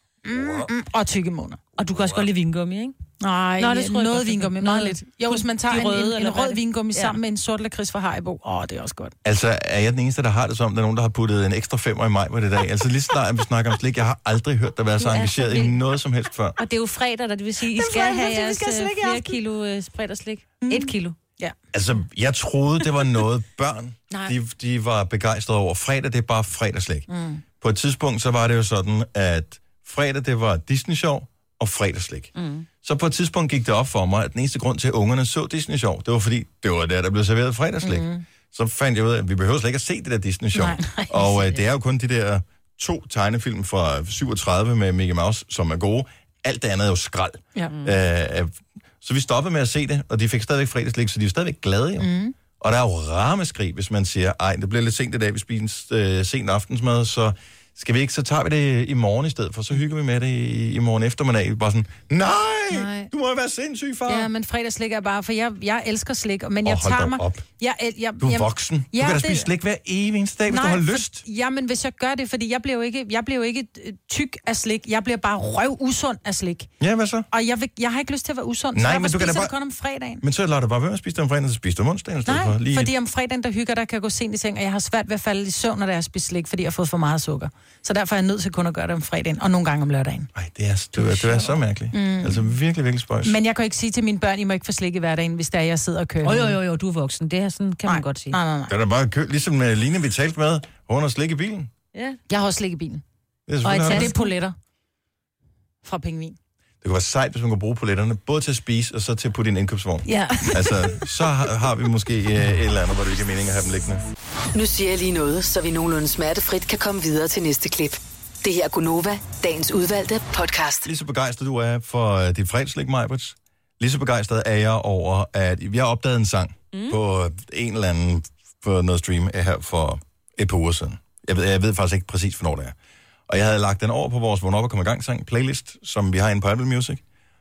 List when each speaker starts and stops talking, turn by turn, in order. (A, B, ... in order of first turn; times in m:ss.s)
0:00.3-0:01.6 A
0:01.8-0:03.0 B
0:03.2-0:09.1 A
0:03.6-0:07.2 B
0:09.2-0:16.6 C
0:15.0-0:15.8 B
0:16.6-0:21.2 B
0:17.7-0:19.4 A
0:20.6-0:21.6 A
0:21.7-0:27.1 C
0:27.1-0:27.4 A
0:27.6-1:04.3 C
0:32.4-0:32.7 B
0:37.8-0:38.2 A
0:40.6-0:41.1 A
0:41.2-0:41.6 B
0:52.0-0:52.4 A
1:02.7-1:03.1 A
1:04.1-1:09.5 A
1:06.6-1:07.4 C
1:08.2-1:11.2 C
1:10.5-1:16.7 A
1:16.8-1:17.3 C
1:17.3-1:20.2 A
1:18.7-1:19.5 C
1:20.2-1:22.9 C
1:22.3-1:30.3 A
1:30.4-1:33.4 C
1:31.9-1:32.4 A
1:33.2-1:36.6 A
1:36.2-1:38.4 B
1:37.9-1:38.7 A
1:38.7-1:41.7 C
1:41.9-1:42.2 B
1:42.3-1:43.0 A
1:43.5-1:44.1 C
1:43.6-1:44.3 B
1:43.8-1:44.6 A
1:45.8-1:46.4 A
1:46.8-1:54.0 C
1:50.1-1:50.7 B
1:54.5-2:00.9 D
2:00.8-2:12.8 C
2:06.7-2:07.0 B
2:13.3-2:17.0 C